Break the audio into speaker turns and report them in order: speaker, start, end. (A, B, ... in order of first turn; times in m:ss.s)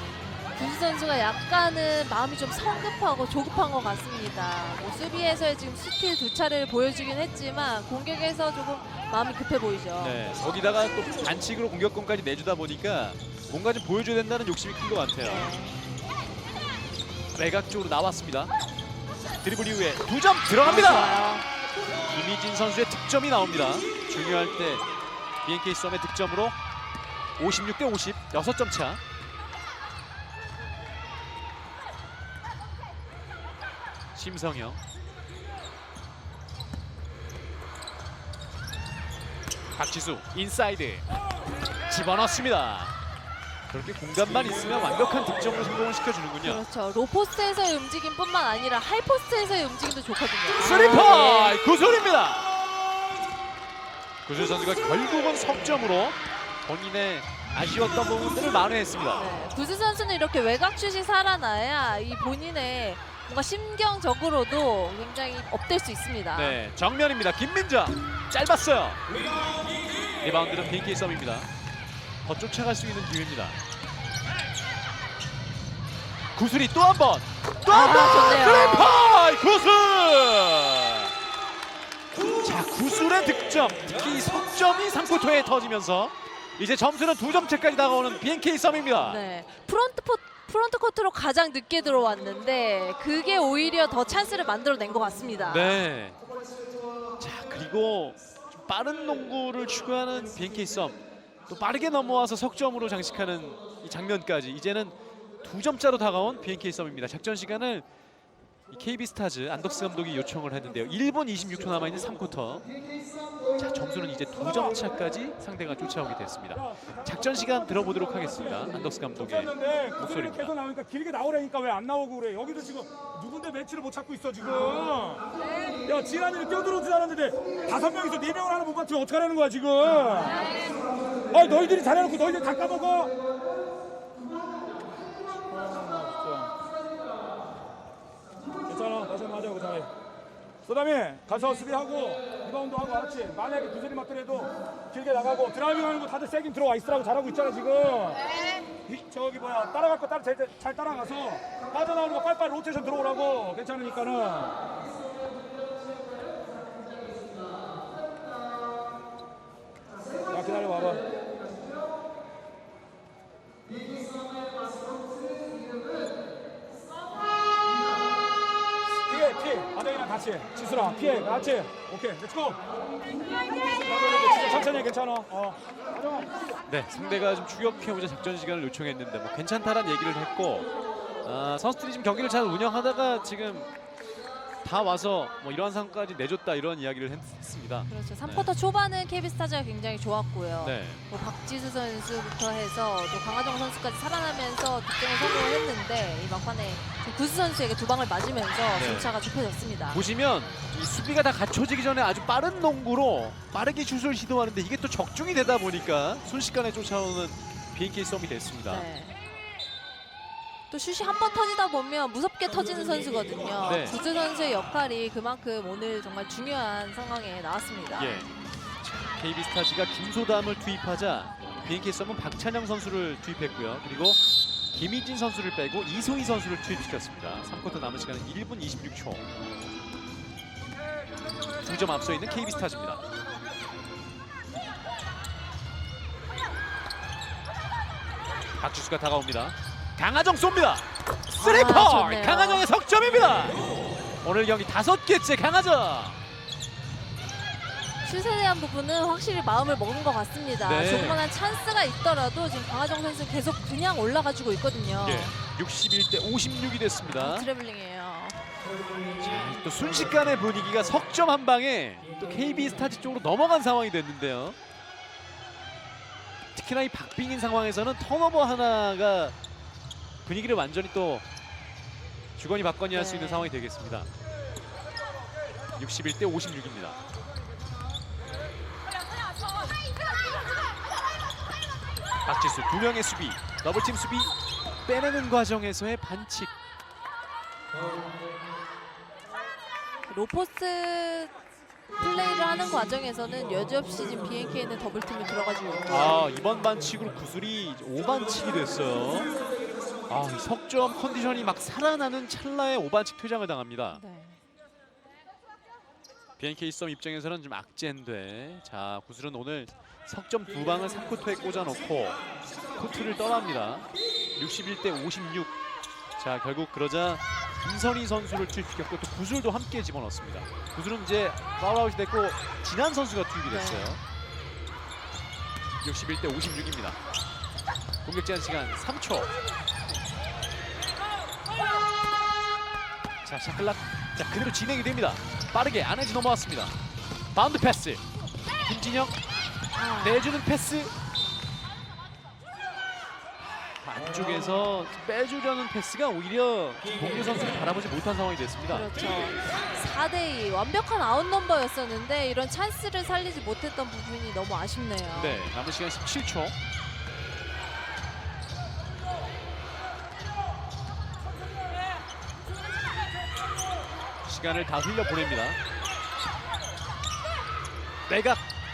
0:00.5-0:10.2 A
0:10.0-0:15.5 B
0:15.2-0:15.8 A
0:17.3-0:18.5 B
0:19.4-0:21.3 B
0:20.6-0:21.4 A
0:22.0-0:24.8 B
0:25.4-0:26.5 B
0:27.4-0:29.0 B
0:34.1-0:34.8 B
0:39.7-0:41.0 B
0:41.8-0:42.9 B
0:43.7-0:46.6 B
0:46.4-0:51.6 A
0:50.6-0:52.5 B
0:54.2-0:59.3 B
0:59.2-1:06.6 A
1:06.3-1:09.0 B
1:10.2-1:11.5 B
1:12.2-1:13.6 B
1:16.3-1:21.1 B
1:17.7-1:18.9 A
1:22.2-1:29.2 B
1:29.0-1:35.8 A
1:35.5-1:36.2 B
1:37.2-1:47.8 B
1:48.7-1:52.7 B
1:53.6-2:00.5 B
1:59.2-2:05.2 C
2:05.8-2:10.4 C
2:11.3-2:13.1 C
2:15.5-2:16.5 C
2:18.7-2:19.9 C
2:20.6-2:28.2 C
2:28.8-2:34.6 C
2:40.3-2:41.0 C
2:49.1-2:52.6 C
2:53.9-2:56.3 C
2:56.7-3:00.7 B
3:01.2-3:03.7 B
3:04.6-3:08.5 B
3:07.9-3:20.0 A
3:10.6-3:11.0 B
3:18.7-3:19.1 B
3:19.9-3:28.8 B
3:28.7-3:29.2 A
3:30.7-3:38.2 A
3:33.6-3:34.0 B
3:38.0-3:49.2 B
3:51.6-3:53.0 B
3:58.6-4:03.6 B
4:01.3-4:02.6 A
4:04.2-4:06.2 B
4:08.0-4:15.3 A
4:10.6-4:11.2 B
4:15.0-4:17.5 B
4:17.1-4:18.4 A
4:19.2-4:24.6 B
4:26.5-4:29.3 B
4:30.2-4:31.2 B
4:32.4-4:34.1 B
4:32.9-4:33.5 A
4:35.8-4:37.0 B
4:42.2-4:44.3 B
4:44.8-4:46.5 B
4:50.1-4:51.3 A
4:52.0-4:56.0 A
4:55.9-4:59.3 B
5:00.1-5:04.0 B
5:03.9-5:04.4 A
5:06.4-5:12.2 B
5:12.7-5:15.5 B
5:16.2-5:24.0 B
5:23.5-5:24.0 A
5:25.8-5:27.0 B
5:28.0-5:29.3 B
5:33.2-5:36.7 B
5:37.3-5:38.0 B
5:38.6-5:39.1 B
5:39.7-5:40.3 A
5:40.0-5:40.9 B
5:43.4-5:48.9 B
5:48.7-5:55.5 A
5:55.1-5:56.5 B
6:04.2-6:05.6 B
6:08.1-6:08.4 B